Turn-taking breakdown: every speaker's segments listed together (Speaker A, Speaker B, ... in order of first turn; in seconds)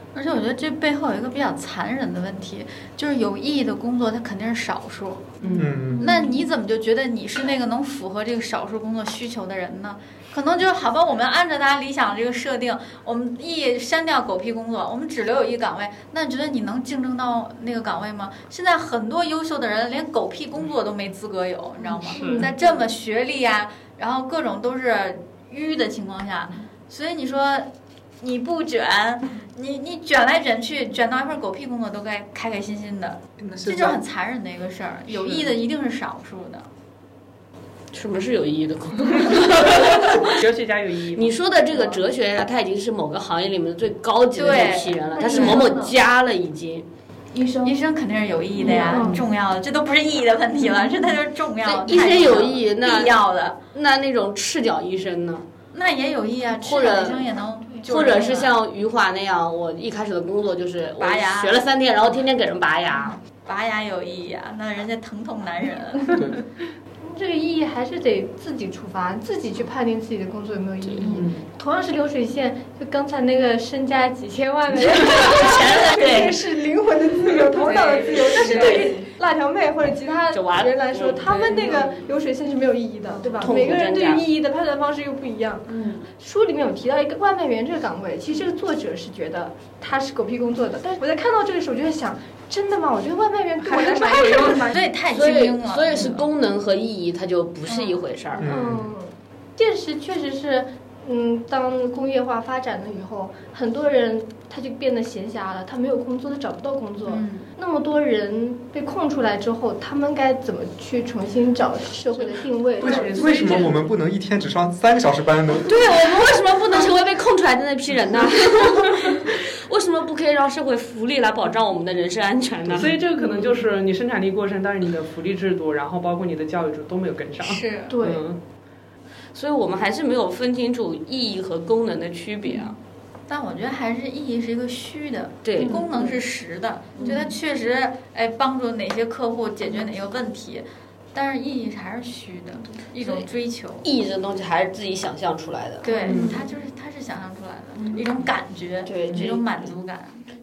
Speaker A: 0.1-27.7, 28.2-36.7, 44.3-45.6, 47.6-53.6, 55.7-58.5, 61.0-61.6, 62.9-66.1, 77.6-79.0, 93.6-96.2, 97.7-98.0, 107.1-107.5, 127.4-128.0, 133.3-143.8, 145.8-150.2
Speaker B: 5.4-5.8, 22.1-22.5, 35.1-35.5, 39.2-41.3, 71.0-71.5, 112.8-113.8, 118.8-119.1, 122.7-128.4, 146.0-146.4
Speaker C: 5.5-6.1, 33.4-34.0, 66.1-66.4, 98.4-98.9, 112.8-115.8
Speaker D: 5.9-6.4, 21.9-22.5, 48.6-49.2, 67.0-94.9, 98.4-113.6, 127.9-128.2
Speaker E: 37.9-40.4, 41.1-46.9, 51.6-53.1, 53.7-55.4, 56.6-57.2, 57.9-63.1, 74.8-76.4, 80.3-82.0, 83.4-84.2, 95.1-98.5, 115.6-123.0, 129.3-132.8, 135.4-136.1, 143.8-146.0, 148.8-149.7
Speaker F: 45.1-45.9, 47.3-47.7, 48.6-49.1, 77.7-79.0, 85.7-86.0, 135.6-135.9